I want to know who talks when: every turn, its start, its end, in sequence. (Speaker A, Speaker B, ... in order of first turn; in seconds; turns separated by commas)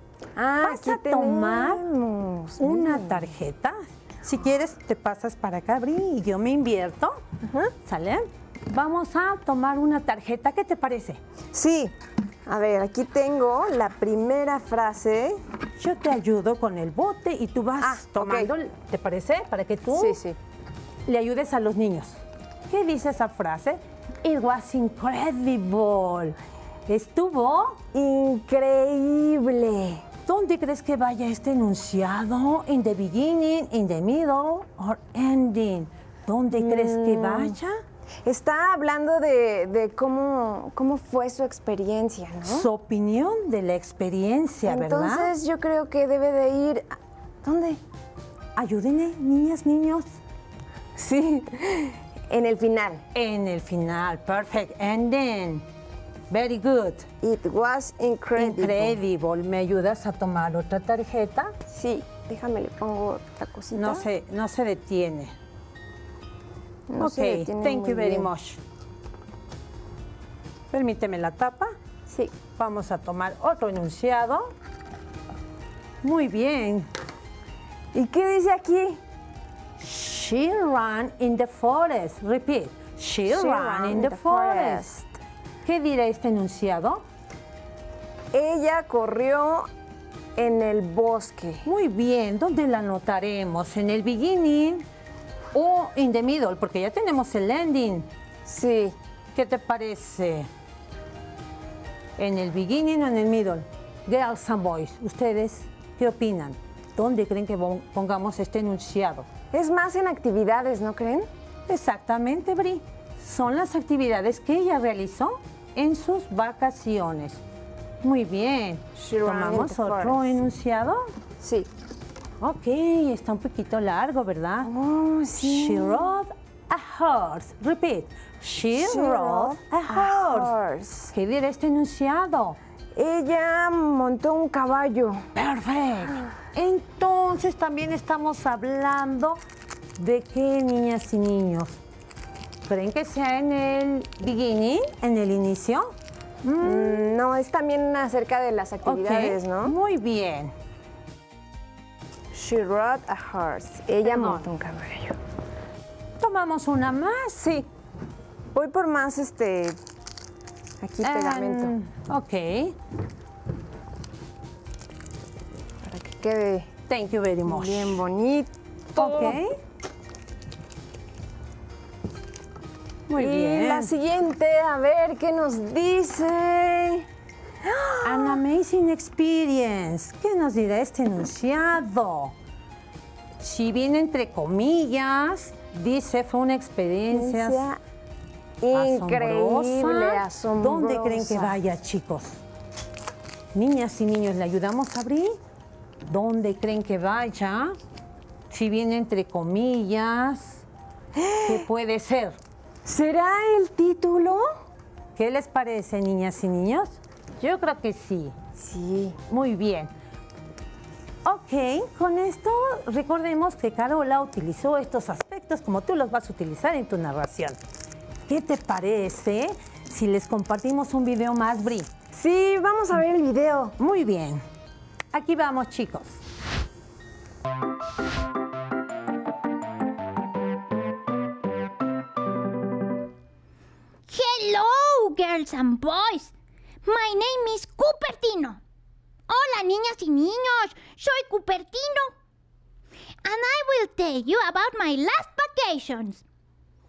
Speaker A: 0.4-3.3, Speaker B: 0.6-1.8, Speaker B: 2.6-7.2, Speaker A: 7.5-7.7, Speaker B: 7.8-11.2, Speaker A: 11.5-11.9, Speaker A: 12.5-15.4, Speaker B: 15.8-20.2, Speaker A: 17.8-18.5, Speaker A: 19.9-20.4, Speaker B: 21.1-27.8, Speaker A: 27.9-30.1, Speaker B: 30.3-37.8, Speaker A: 36.5-37.6, Speaker A: 38.2-42.7, Speaker B: 42.5-45.3, Speaker A: 44.7-46.9, Speaker A: 47.4-47.8, Speaker B: 48.6-50.1, Speaker A: 51.0-53.0, Speaker B: 53.1-55.6, Speaker B: 56.3-57.1, Speaker A: 57.2-59.0, Speaker B: 58.4-61.5, Speaker A: 61.7-64.1, Speaker B: 63.7-65.3, Speaker A: 66.9-68.3, Speaker B: 67.0-68.6, Speaker B: 70.7-71.7, Speaker B: 72.5-74.5, Speaker B: 76.0-76.9, Speaker A: 77.9-79.0, Speaker B: 79.8-84.9, Speaker A: 83.3-85.2, Speaker B: 85.7-87.0, Speaker A: 88.3-89.7, Speaker A: 90.4-91.7, Speaker B: 91.7-94.8, Speaker B: 95.5-98.1, Speaker A: 98.5-99.0, Speaker B: 99.3-100.5, Speaker B: 102.2-109.3, Speaker A: 109.5-111.3, Speaker B: 111.7-117.4, Speaker B: 118.0-121.1, Speaker A: 119.0-120.4, Speaker A: 121.4-121.7, Speaker B: 122.4-124.7, Speaker A: 124.7-126.1, Speaker B: 125.3-130.5, Speaker A: 128.8-131.1, Speaker B: 131.1-132.6, Speaker A: 132.9-135.2, Speaker B: 135.3-139.4, Speaker B: 140.0-141.8, Speaker B: 142.7-147.1, Speaker A: 146.6-149.8, Speaker B: 148.8-150.5, Speaker A: 152.3-155.2, Speaker B: 154.1-154.5, Speaker B: 156.2-157.5, Speaker A: 157.4-157.7, Speaker A: 158.5-159.8, Speaker A: 160.8-161.7, Speaker B: 161.0-162.8, Speaker A: 165.8-166.8, Speaker B: 166.9-168.0, Speaker A: 167.5-169.4, Speaker B: 169.0-169.5, Speaker A: 173.1-177.1, Speaker B: 173.1-173.9, Speaker A: 177.6-178.4, Speaker B: 178.0-182.3, Speaker B: 183.4-187.7, Speaker A: 187.1-187.8, Speaker A: 188.6-191.6, Speaker B: 188.7-192.4, Speaker B: 193.5-195.4, Speaker B: 196.1-197.8, Speaker B: 198.5-200.7, Speaker A: 201.2-201.7, Speaker B: 201.4-202.4, Speaker A: 202.8-204.5, Speaker B: 205.2-208.4, Speaker A: 208.6-209.2, Speaker B: 209.3-209.9, Speaker B: 211.2-217.6, Speaker B: 218.3-221.9, Speaker A: 222.1-223.8, Speaker B: 223.8-224.4, Speaker B: 225.1-226.2, Speaker C: 234.1-236.3, Speaker C: 236.8-238.6, Speaker C: 239.3-242.2, Speaker C: 243.2-246.2